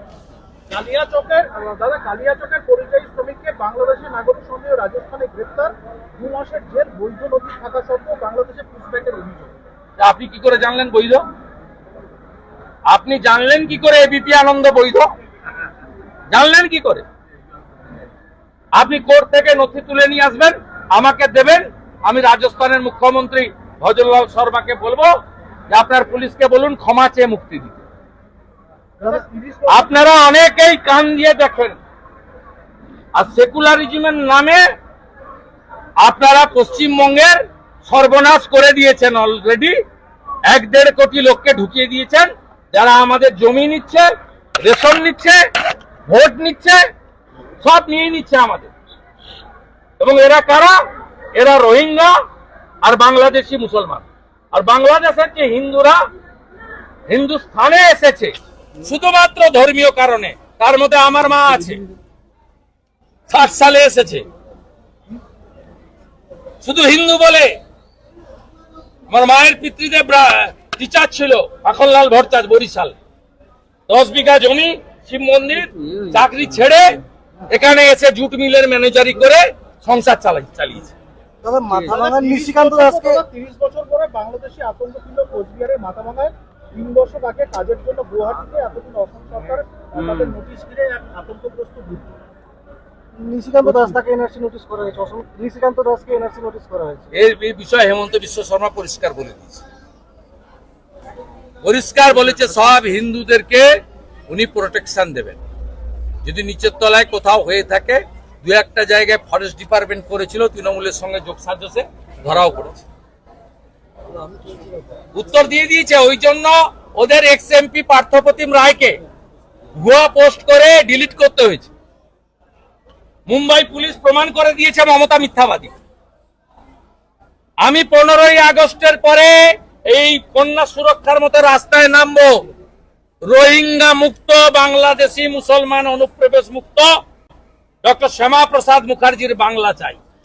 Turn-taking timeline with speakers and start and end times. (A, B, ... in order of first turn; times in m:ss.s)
0:00.7-0:09.5 A
0:10.0-0:11.2 B
0:12.9-0:15.1 B
0:16.3-0:17.0 B
0:18.7-0:25.1 B
0:25.7-0:27.8 B
0:29.0-0:29.9 A
0:29.7-0:31.8 B
0:33.1-0:34.6 B
0:36.0-0:39.8 B
0:40.4-0:44.1 B
0:44.6-0:45.4 B
0:46.0-0:46.8 B
0:47.6-0:48.7 B
0:50.0-0:50.8 B
0:51.3-0:52.2 B
0:52.8-0:56.0 B
0:57.1-1:01.8 B
1:03.3-1:04.2 B
1:06.6-1:07.5 B
1:09.1-1:12.9 B
1:13.9-1:20.9 B
1:21.4-1:23.2 C
1:21.9-1:32.1 A
1:33.2-1:37.0 C
1:37.1-1:39.6 B
1:41.6-1:43.7 B
1:44.3-1:45.4 B
1:46.2-1:52.8 B
1:55.1-1:59.0 B
1:59.8-2:01.7 B
2:03.3-2:05.7 B
2:07.6-2:12.4 B
2:13.2-2:16.9 B
2:17.8-2:20.0 B